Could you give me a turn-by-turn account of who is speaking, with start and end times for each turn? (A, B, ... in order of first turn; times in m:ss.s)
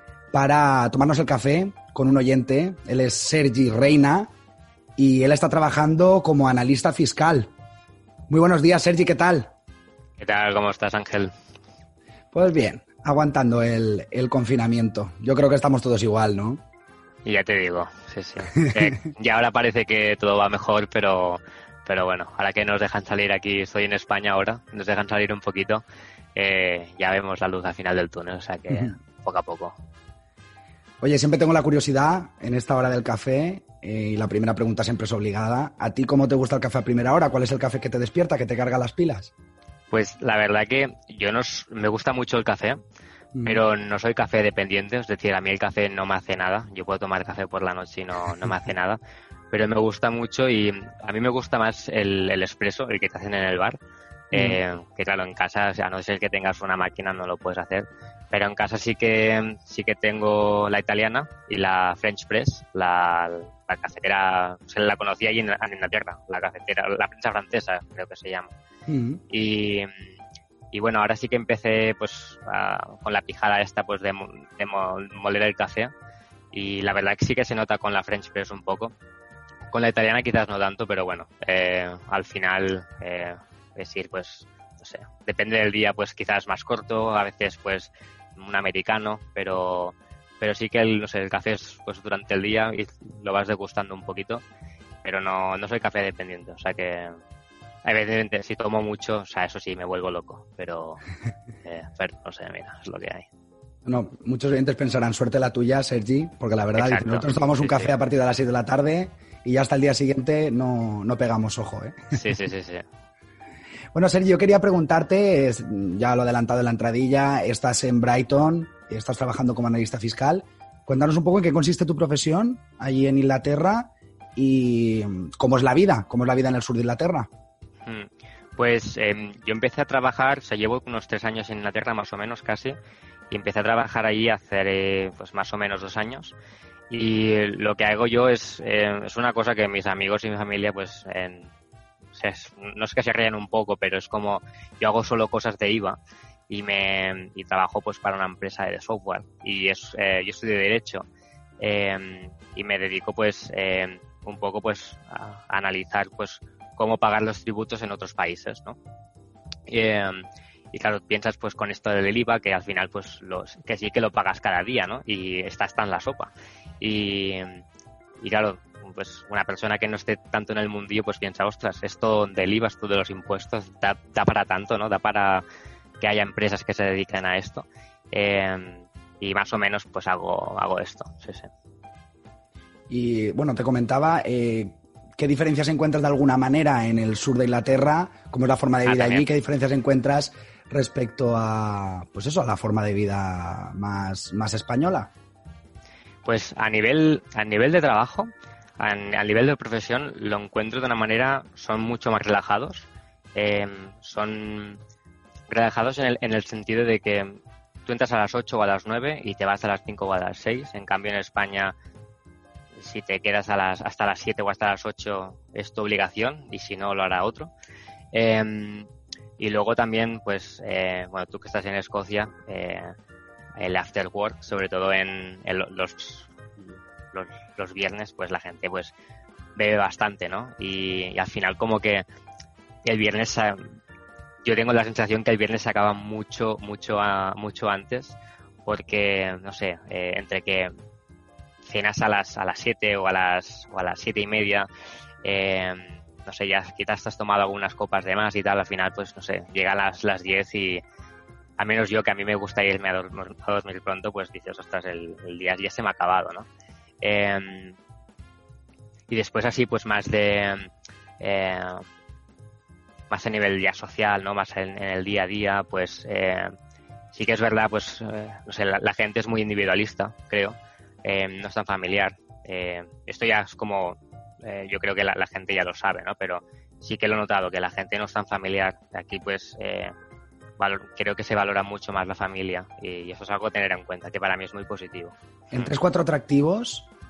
0:00.3-0:04.3 A
0:05.0-0:07.5 A
0:08.3-0:09.5 A
0:10.2-0:11.3 B
0:12.3-0:16.6 A
0:17.2-0:25.8 B
0:26.3-0:29.7 B
0:31.0-0:39.3 A
0:39.9-0:42.8 B
0:43.3-0:43.6 A
0:43.4-0:49.0 B
0:49.5-0:53.8 B
0:54.3-1:08.5 B
0:54.3-0:54.6 A
1:08.9-1:09.2 A
1:09.3-1:09.9 B
1:10.7-1:15.9 B
1:16.5-1:18.9 B
1:19.7-1:34.4 B
1:35.0-1:37.1 B
1:37.8-1:41.0 B
1:41.6-1:43.2 B
1:43.8-1:52.2 A
1:46.7-1:47.9 B
1:52.1-1:52.8 B
1:53.9-2:07.3 A
2:07.8-2:12.8 B
2:13.3-2:16.3 B
2:16.9-2:21.5 B
2:22.1-2:26.0 B
2:26.5-2:31.0 B
2:31.6-2:38.8 B
2:39.7-2:47.6 B
2:48.2-2:55.4 B
2:56.0-3:01.5 B
3:02.9-3:15.1 A
3:08.8-3:09.2 B
3:16.2-3:24.8 B
3:25.5-3:31.7 B
3:32.8-3:37.5 B
3:38.1-3:42.9 B
3:43.6-3:48.9 B
3:49.6-3:52.0 B
3:52.8-3:53.6 B
3:54.4-4:00.7 B
4:01.6-4:04.6 B
4:05.2-4:10.8 B
4:11.6-4:16.5 B
4:17.0-4:17.8 B
4:19.1-4:20.7 B
4:21.2-4:21.8 B
4:23.1-4:26.5 B
4:27.1-4:39.9 B
4:40.6-4:45.7 B
4:45.5-4:46.9 A